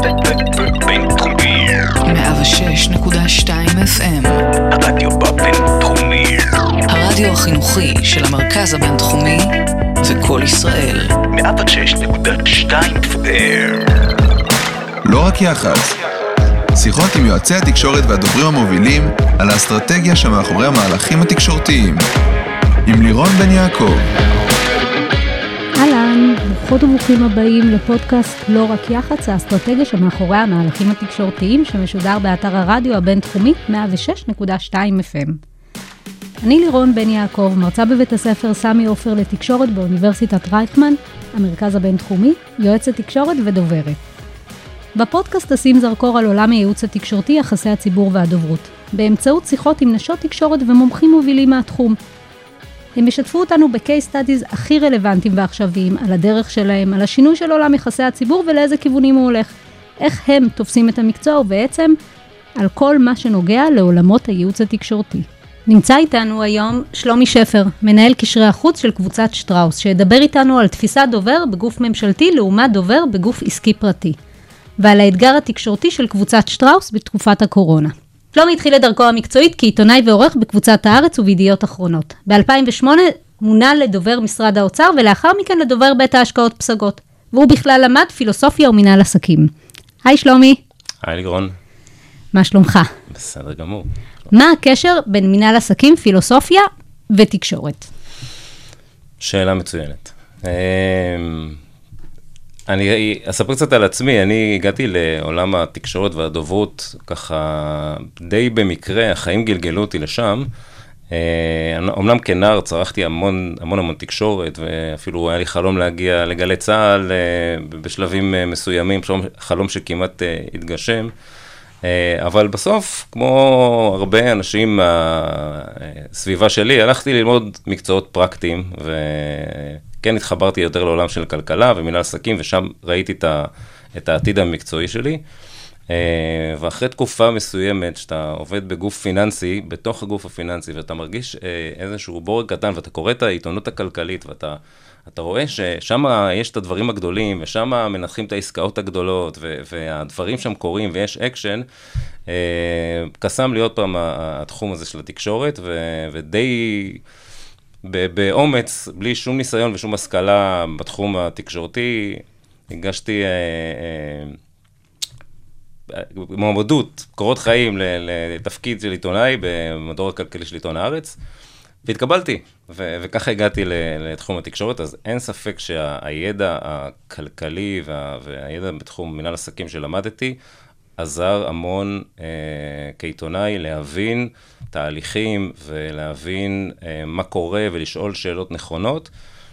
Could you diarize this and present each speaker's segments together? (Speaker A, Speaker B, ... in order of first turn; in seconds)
Speaker A: 0.2-2.0, 4.7-6.5, 11.3-14.2
Speaker B: 2.0-4.4, 6.9-9.5, 10.0-11.2
Speaker C: 15.1-16.0, 16.8-22.0, 22.9-24.1
Speaker D: 25.8-35.4, 36.4-44.0, 45.0-52.0, 53.0-62.0, 62.6-74.2, 74.8-89.5, 90.0-90.6, 92.3-92.9, 94.3-97.9
Speaker E: 91.0-91.6, 93.1-93.9, 99.2-101.6, 102.7-110.5, 111.1-121.1, 121.8-135.2, 135.9-151.7, 152.3-157.0, 157.8-164.4, 165.9-171.2, 171.8-180.4, 181.0-189.1